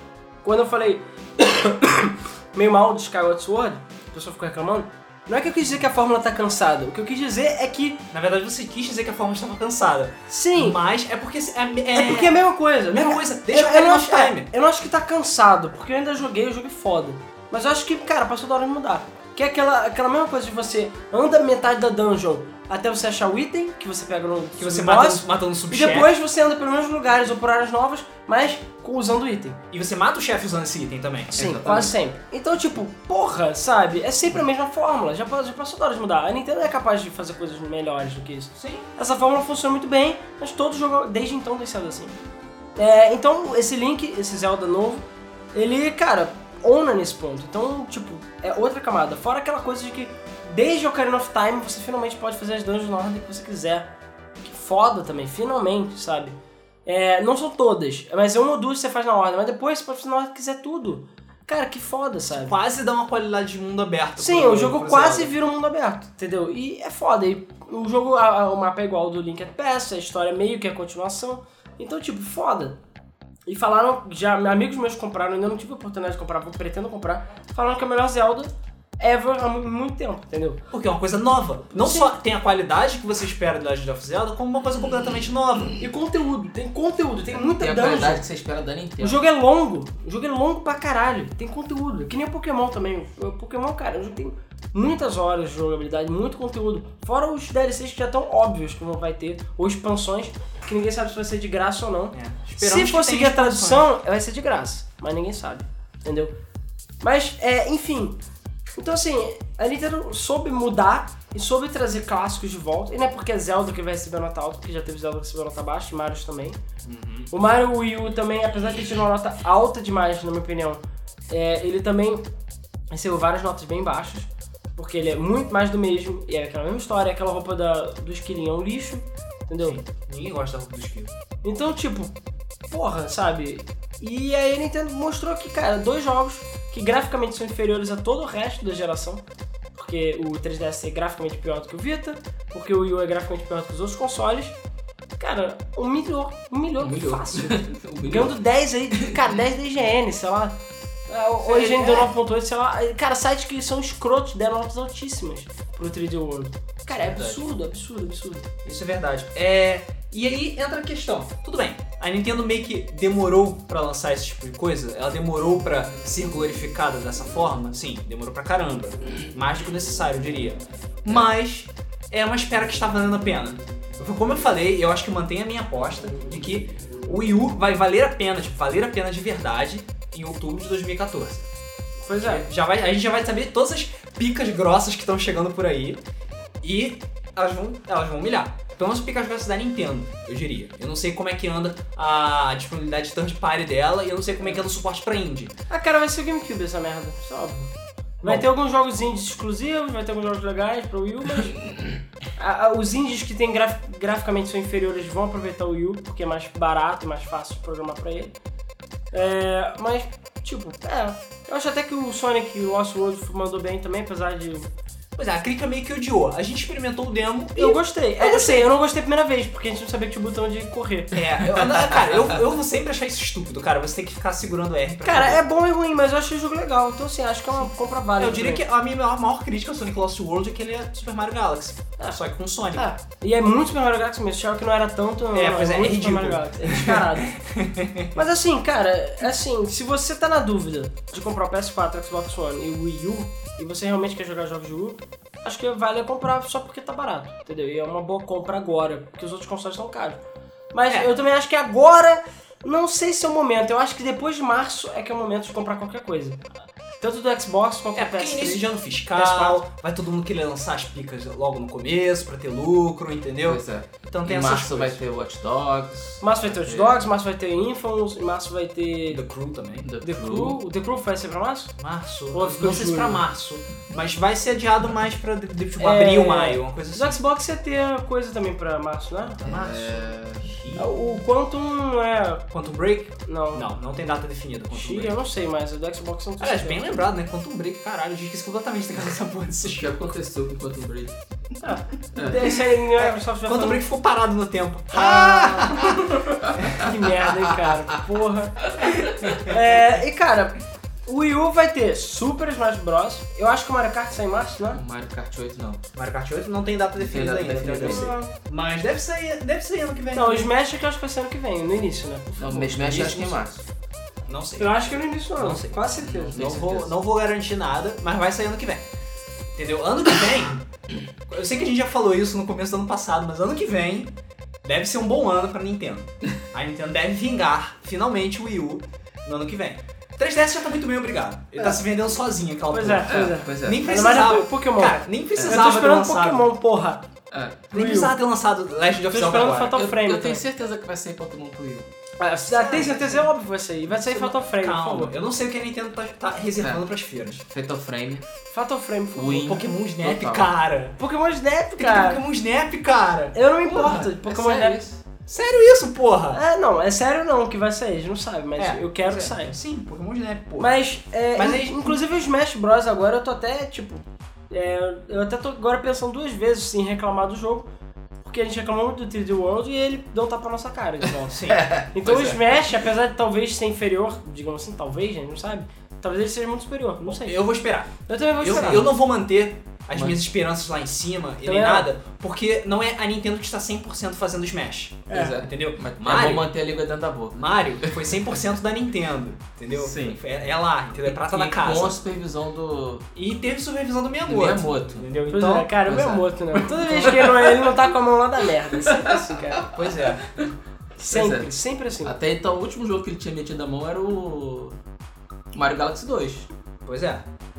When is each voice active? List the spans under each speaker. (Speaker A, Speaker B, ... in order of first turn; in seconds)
Speaker A: 0.4-8.0, 10.3-10.8, 11.9-29.6, 31.4-42.1, 42.8-53.9, 54.4-56.3, 56.9-62.5, 64.2-72.8, 73.5-80.6, 81.7-82.1, 85.8-88.2, 89.0-106.3, 107.0-108.2, 108.7-116.6, 117.3-122.2, 122.9-129.8, 131.4-132.1, 132.7-139.2, 139.7-144.5, 145.2-150.6, 151.1-158.5, 182.1-182.4, 195.7-197.7, 198.2-201.7, 202.4-208.3, 209.1-214.7, 217.6-221.2, 225.0-228.6, 232.7-237.3, 238.1-250.2, 250.7-256.4, 257.0-259.6, 266.2-269.2, 270.0-271.7, 272.3-273.2, 275.8-279.4, 280.8-282.4, 283.2-283.6, 284.7-286.9, 291.6-293.8, 294.9-304.8, 307.8-308.3, 310.1-312.6, 314.6-316.4, 332.7-337.0, 337.7-338.1, 339.1-340.4, 342.2-345.1, 348.5-349.5, 351.0-352.2, 353.3-354.8, 356.3-359.6, 360.6-367.7, 368.2-377.4, 378.1-378.9, 381.4-381.9, 385.1-385.4, 395.3-399.7, 401.0-402.1
Speaker B: 8.1-12.4, 12.9-14.5, 24.6-26.1, 29.7-31.4, 38.6-38.8, 62.4-65.3, 80.7-85.8, 102.1-103.8, 116.8-117.3, 129.6-131.1, 151.4-152.1, 156.9-157.4, 158.6-181.4, 182.2-186.0, 186.6-195.5, 215.2-218.6, 221.1-225.4, 228.2-232.9, 235.3-238.2, 257.9-265.0, 269.1-269.9, 271.8-277.2, 279.4-280.9, 282.5-285.2, 286.4-289.9, 292.9-296.9, 298.9-299.5, 305.9-310.5, 312.4-313.5, 314.3-318.8, 319.6-320.6, 321.3-324.1, 324.6-336.4, 337.7-339.8, 342.5-343.3, 343.9-347.4, 349.4-351.0, 351.8-354.1, 355.3-356.4, 358.6-360.7, 361.3-362.0, 371.3-371.7, 377.0-386.5, 387.3-392.0, 393.1-395.7, 399.7-400.3, 406.9-407.2
Speaker C: 31.3-31.9, 87.3-89.2, 146.8-148.4, 148.9-149.3, 263.4-267.1, 269.8-270.6, 279.4-280.5, 289.6-291.2, 292.1-292.5, 296.5-296.9, 304.7-305.8, 307.0-308.1, 312.4-313.6, 316.0-316.9, 333.1-333.8, 337.3-337.6, 339.7-341.9, 347.4-348.3, 349.1-350.5, 353.7-355.0, 371.5-372.6, 378.5-378.9, 385.1-388.2, 389.8-390.2, 391.0-393.1, 394.2-395.1, 395.9-397.8, 398.7-399.6, 401.1-404.8, 405.5-406.5